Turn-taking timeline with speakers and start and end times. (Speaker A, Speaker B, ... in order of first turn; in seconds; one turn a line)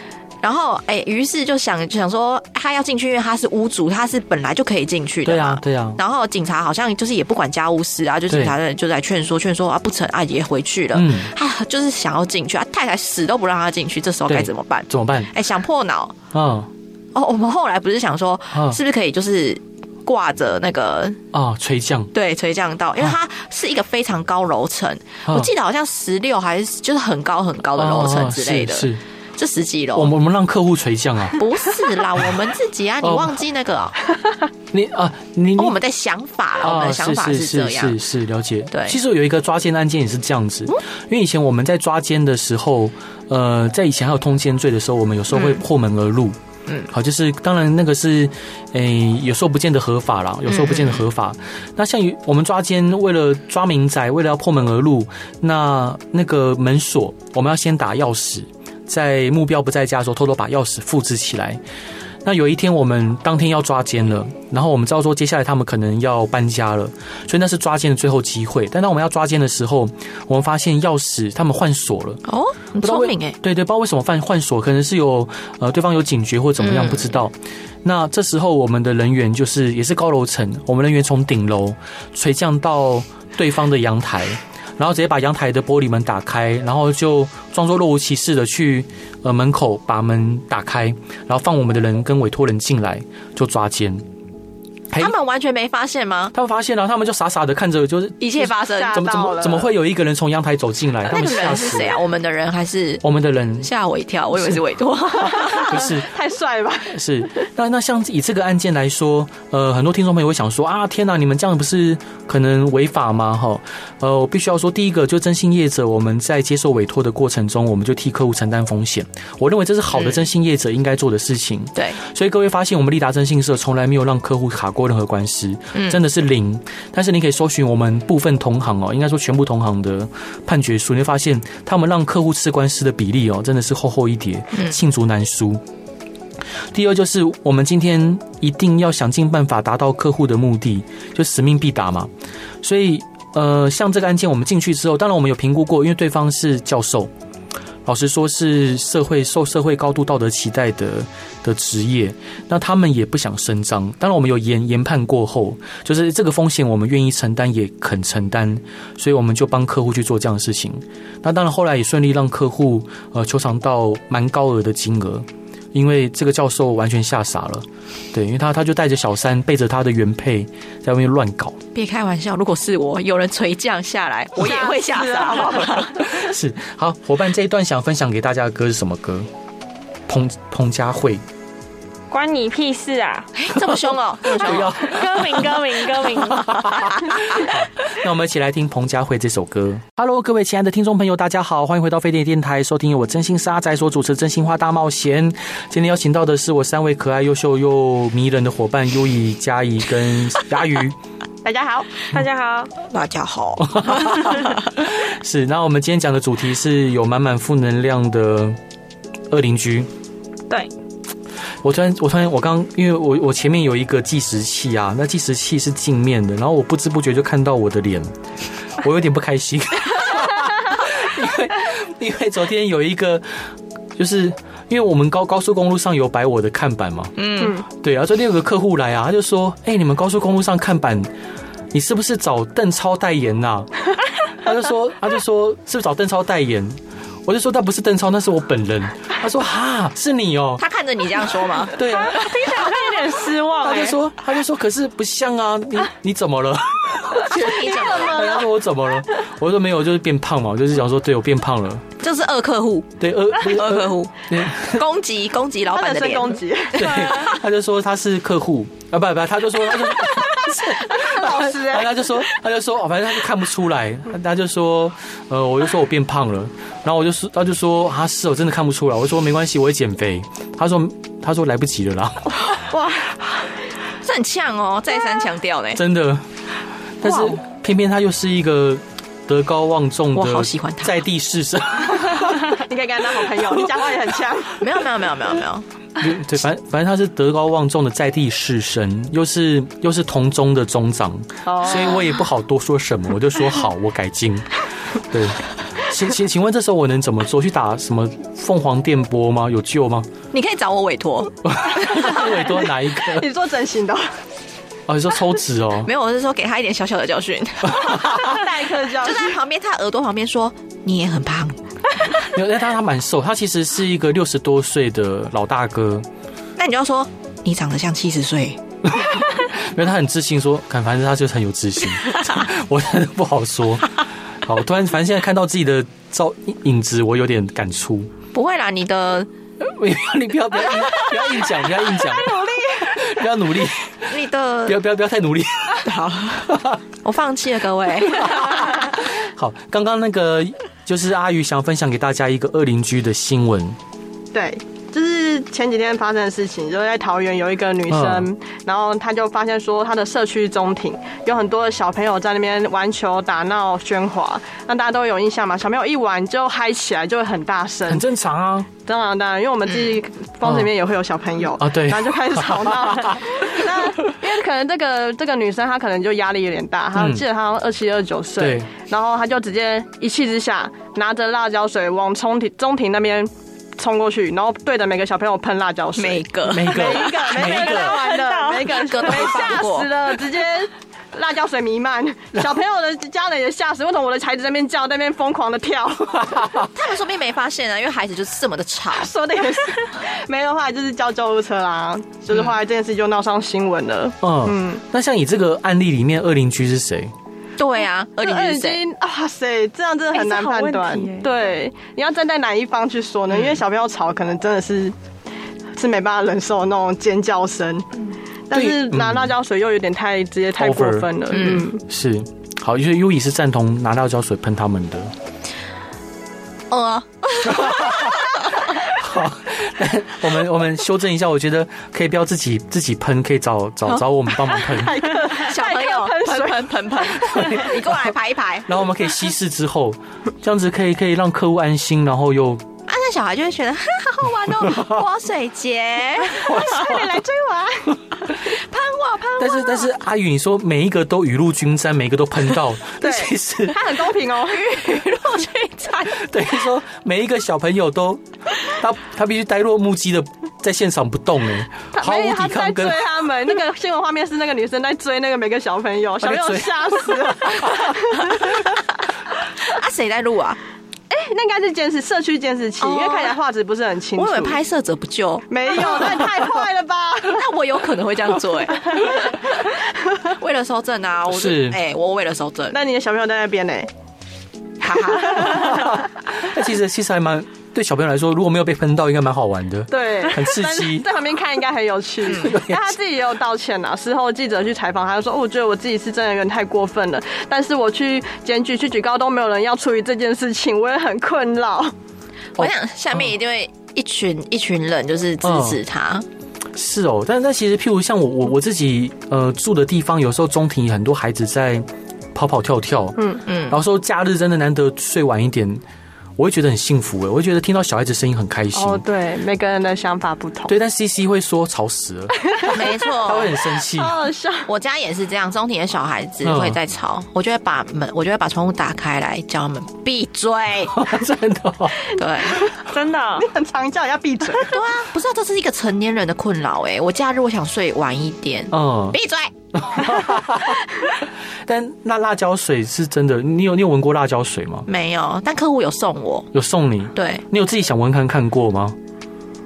Speaker A: 0.4-16.1
Speaker B: 5.2-6.0
Speaker B: 8.3-8.6
Speaker B: 10.9-11.3
Speaker B: 14.3-15.3
Speaker B: 16.3-16.7
Speaker A: 17.1-21.2
Speaker B: 18.5-18.8
Speaker B: 21.3-22.1
Speaker A: 22.1-30.1
Speaker B: 27.8-29.0
Speaker B: 29.9-31.4
Speaker A: 31.4-34.0
Speaker B: 33.0-33.4
Speaker B: 34.7-35.8
Speaker A: 35.6-38.0
Speaker B: 36.6-46.4
Speaker A: 38.7-39.0
Speaker A: 45.3-45.6
Speaker B: 46.9-61.6
Speaker A: 50.5-51.1
Speaker B: 62.2-72.2
Speaker A: 72.2-73.4
Speaker B: 72.8-94.0
Speaker A: 76.6-77.1
Speaker A: 94.9-96.3
Speaker B: 96.3-102.0
Speaker A: 98.2-99.1
Speaker C: 98.4-99.7
Speaker A: 101.0-103.0
Speaker B: 103.0-103.7
Speaker A: 103.6-105.9
Speaker C: 105.4-107.0
Speaker B: 105.5-106.1
Speaker B: 106.9-135.6
Speaker A: 119.9-120.2
Speaker A: 125.7-126.0
Speaker A: 134.5-134.8
Speaker B: 136.7-142.1
Speaker B: 142.6-147.1
Speaker B: 147.8-171.6
Speaker A: 171.7-176.0
Speaker C: 174.4-175.9
Speaker B: 175.9-179.3
Speaker B: 180.1-181.2
Speaker D: 182.1-183.3
Speaker A: 183.3-184.9
Speaker B: 184.3-185.5
Speaker D: 184.8-186.7
Speaker B: 186.3-200.9
Speaker A: 186.5-187.5
Speaker C: 201.4-201.9
Speaker D: 202.1-202.7
Speaker A: 202.9-204.6
Speaker B: 203.6-208.6
Speaker B: 209.3-209.9
Speaker B: 211.6-218.1
Speaker B: 218.8-227.2
Speaker A: 227.2-227.6
Speaker B: 227.7-231.1
Speaker B: 231.7-233.7
Speaker B: 234.3-240.6
Speaker A: 240.6-241.9
Speaker B: 241.7-242.7
Speaker D: 241.9-244.0
Speaker B: 243.6-251.9
Speaker A: 247.2-248.4
Speaker C: 247.3-248.5
Speaker A: 252.0-257.3
Speaker B: 253.0-254.9
Speaker C: 255.7-257.3
Speaker B: 256.7-272.6
Speaker C: 260.8-262.1
Speaker C: 272.6-273.2
Speaker A: 274.0-275.8
Speaker B: 275.8-276.2
Speaker B: 277.0-282.5
Speaker A: 280.1-280.9
Speaker C: 282.4-284.6
Speaker A: 284.6-285.6
Speaker B: 286.0-300.1
Speaker C: 291.4-292.0
Speaker A: 300.3-302.2
Speaker B: 301.4-303.3
Speaker C: 302.2-304.1
Speaker B: 304.9-305.9
Speaker A: 305.8-311.6
Speaker B: 307.8-308.1
Speaker C: 308.0-309.4
Speaker B: 312.3-316.1
Speaker A: 316.6-318.6
Speaker B: 318.9-328.1
Speaker A: 328.3-329.3
Speaker B: 329.6-334.1
Speaker C: 332.1-332.9
Speaker A: 334.1-334.8
Speaker B: 334.6-335.9
Speaker A: 335.8-338.9
Speaker B: 336.5-336.8
Speaker B: 338.1-343.8
Speaker C: 344.3-358.1
Speaker B: 347.9-348.3
Speaker B: 357.9-358.7
Speaker C: 358.9-386.5
Speaker B: 360.4-360.7
Speaker B: 361.6-363.6
Speaker B: 366.9-367.2
Speaker B: 368.4-368.7
Speaker A: 375.9-377.1
Speaker B: 376.4-378.0
Speaker D: 377.4-379.6
Speaker A: 378.7-379.9
Speaker B: 386.2-386.7
Speaker A: 386.7-389.1
Speaker C: 388.9-394.8
Speaker B: 394.2-397.1
Speaker A: 397.6-398.8
Speaker C: 398.2-404.9
Speaker D: 400.1-401.6
Speaker C: 405.8-407.9
Speaker C: 408.5-411.8
Speaker B: 408.5-409.3
Speaker B: 410.6-411.1
Speaker A: 411.3-411.7
Speaker B: 411.8-415.1
Speaker A: 416.7-418.7
Speaker B: 417.5-418.2
Speaker B: 418.8-425.0
Speaker C: 424.6-427.7
Speaker A: 425.0-428.8
Speaker B: 427.3-428.0
Speaker B: 428.7-432.6
Speaker A: 432.9-436.7
Speaker B: 434.6-434.9
Speaker B: 436.4-437.1
Speaker C: 436.4-438.0
Speaker A: 438.3-439.9
Speaker B: 439.4-443.8
Speaker C: 443.0-444.7
Speaker A: 444.4-446.5
Speaker B: 446.1-453.2
Speaker C: 451.9-458.8
Speaker B: 456.2-457.9
Speaker A: 459.6-460.6
Speaker C: 461.1-464.6
Speaker A: 462.8-463.4
Speaker A: 464.1-466.4
Speaker C: 465.5-467.4
Speaker A: 467.2-469.5
Speaker A: 470.2-472.8
Speaker B: 471.3-471.8
Speaker C: 472.7-473.9
Speaker A: 474.8-475.9
Speaker B: 475.3-481.1
Speaker C: 479.9-491.9
Speaker A: 482.2-482.5
Speaker B: 482.3-482.9
Speaker A: 492.6-496.3
Speaker B: 495.4-495.8
Speaker B: 496.8-505.8
Speaker A: 503.4-503.8
Speaker B: 506.4-509.0
Speaker C: 508.7-510.8
Speaker B: 510.7-514.2
Speaker A: 512.6-513.6
Speaker C: 513.9-514.7
Speaker A: 514.6-521.2
Speaker B: 516.4-516.8
Speaker B: 520.9-522.1
Speaker A: 522.1-522.7
Speaker D: 522.9-523.5
Speaker C: 523.4-524.8
Speaker A: 524.6-530.4
Speaker B: 528.7-529.2
Speaker B: 529.8-530.8
Speaker B: 531.6-534.9
Speaker A: 534.9-536.5
Speaker B: 536.5-539.0
Speaker A: 537.1-537.4